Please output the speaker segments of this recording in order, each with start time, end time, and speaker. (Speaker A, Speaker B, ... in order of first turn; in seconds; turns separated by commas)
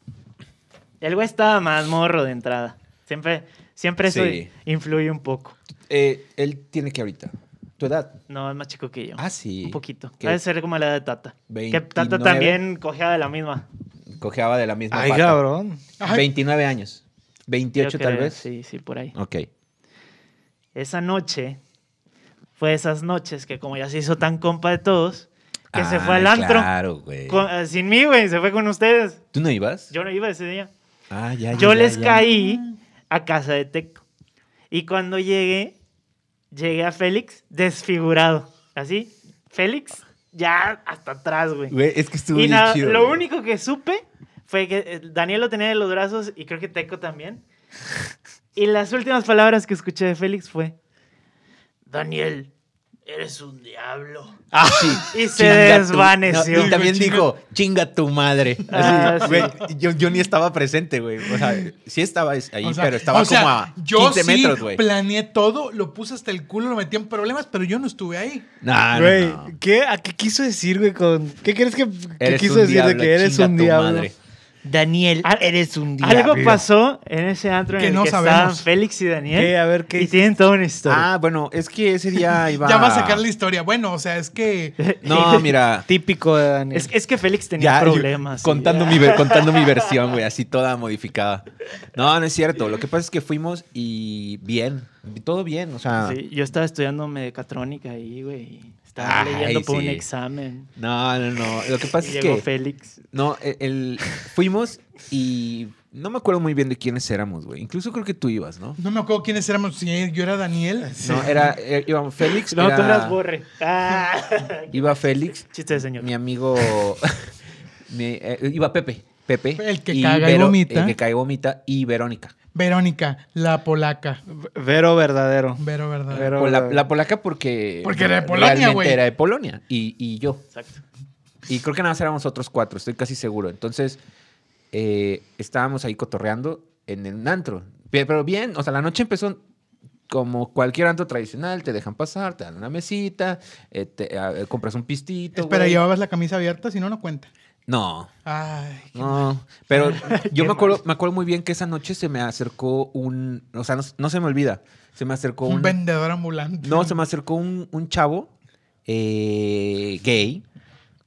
Speaker A: 1.0-5.6, Speaker B: 4.0-4.5, Speaker B: 5.9-8.2, Speaker A: 8.3-13.7, Speaker B: 9.2-10.4, Speaker B: 11.5-12.6, Speaker B: 14.2-15.4, Speaker C: 14.9-15.8, Speaker D: 16.0-16.3, Speaker B: 16.0-18.4, Speaker A: 17.8-19.1, Speaker B: 19.1-19.5, Speaker A: 20.8-21.6, Speaker A: 22.6-26.7, Speaker B: 25.7-27.5, Speaker A: 27.3-29.2, Speaker B: 29.3-29.9, Speaker A: 29.9-30.7, Speaker B: 31.1-32.3, Speaker A: 31.5-34.0, Speaker D: 32.2-32.7, Speaker A: 34.7-35.8, Speaker A: 36.5-41.8, Speaker B: 41.7-43.2, Speaker A: 42.3-47.4, Speaker A: 48.5-50.7, Speaker A: 51.9-52.5, Speaker A: 53.1-54.4, Speaker B: 54.5-64.8, Speaker A: 55.1-56.8, Speaker D: 56.5-57.3, Speaker A: 58.7-59.6, Speaker D: 58.8-59.5, Speaker D: 62.6-68.5, Speaker B: 68.6-69.5, Speaker C: 68.9-74.1, Speaker B: 72.2-74.1, Speaker C: 74.6-76.6, Speaker A: 76.0-81.1, Speaker D: 77.8-78.6, Speaker C: 79.3-80.3, Speaker B: 80.9-83.3, Speaker D: 82.6-84.8, Speaker A: 84.8-85.5, Speaker B: 85.0-85.9, Speaker C: 85.9-86.9, Speaker A: 86.7-89.9, Speaker B: 87.6-96.2, Speaker A: 96.0-100.7, Speaker B: 99.0-100.0, Speaker B: 100.8-102.5, Speaker A: 102.0-103.0, Speaker B: 103.1-108.8, Speaker D: 108.8-111.5, Speaker B: 111.0-113.2, Speaker A: 112.3-116.1, Speaker B: 114.7-117.3, Speaker B: 117.9-122.3, Speaker D: 119.6-121.0, Speaker D: 122.5-124.2, Speaker C: 124.3-126.8, Speaker D: 125.6-126.3, Speaker B: 126.1-130.4, Speaker D: 127.8-129.0, Speaker A: 130.5-130.8, Speaker B: 131.5-134.0, Speaker B: 134.7-139.4, Speaker B: 140.1-145.8, Speaker D: 145.3-147.3, Speaker B: 147.7-148.1, Speaker D: 148.2-149.3, Speaker B: 148.9-155.8, Speaker A: 149.8-150.8, Speaker D: 155.4-157.0, Speaker B: 156.6-158.3, Speaker B: 158.9-160.4